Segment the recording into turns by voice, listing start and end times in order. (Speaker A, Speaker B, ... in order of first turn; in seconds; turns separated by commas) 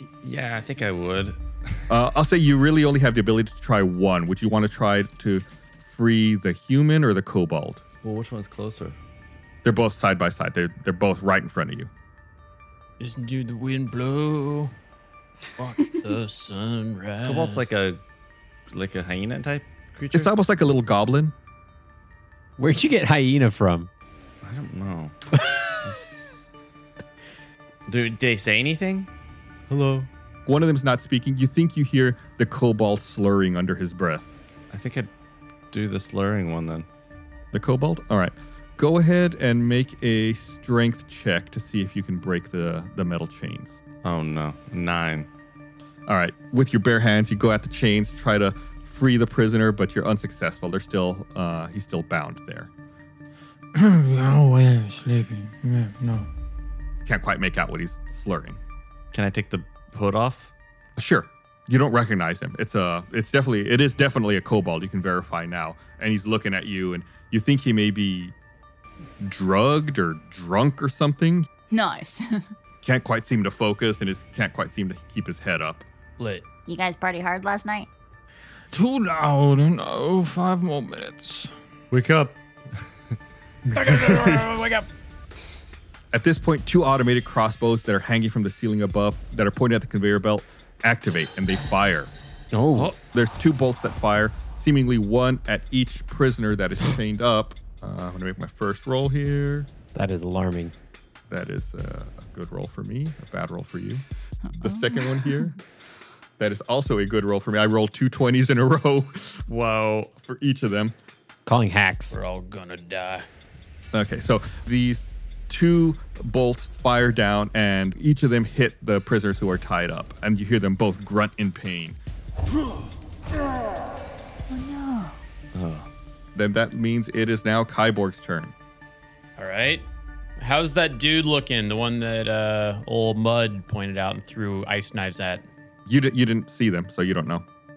Speaker A: 0.2-1.8, Speaker B: 1.9-7.8, Speaker A: 8.0-9.0, Speaker B: 9.6-11.9, Speaker C: 13.0-14.7, Speaker C: 15.6-17.7, Speaker A: 17.2-18.0, Speaker A: 18.7-20.3, Speaker B: 20.1-21.3, Speaker D: 22.6-23.9, Speaker A: 24.4-25.2, Speaker A: 27.9-29.1, Speaker A: 29.7-30.1, Speaker B: 30.5-34.3, Speaker A: 34.7-35.1, Speaker A: 35.7-36.9, Speaker B: 37.5-43.8, Speaker A: 44.0-45.3, Speaker B: 46.1-52.7, Speaker E: 53.8-56.3, Speaker B: 57.1-58.6, Speaker A: 59.1-60.5, Speaker B: 61.0-68.3, Speaker B: 69.2-71.5, Speaker F: 71.7-72.5, Speaker B: 72.8-75.9, Speaker C: 76.2-76.5, Speaker F: 76.7-77.9, Speaker E: 78.7-81.5, Speaker A: 81.9-82.8, Speaker E: 83.8-84.8, Speaker A: 83.9-84.4, Speaker B: 86.1-92.1, Speaker D: 92.5-92.9, Speaker B: 93.1-99.7, Speaker D: 100.0-100.7, Speaker B: 101.3-104.0, Speaker F: 104.5-105.5, Speaker B: 104.6-105.5, Speaker B: 106.4-109.4, Speaker C: 109.5-110.1, Speaker B: 110.2-111.0, Speaker D: 111.5-112.2, Speaker C: 112.1-113.3, Speaker B: 113.9-122.0, Speaker F: 124.5-125.2, Speaker A: 125.5-125.9, Speaker B: 126.3-128.5, Speaker C: 129.4-129.9, Speaker C: 130.4-135.5, Speaker B: 135.9-137.4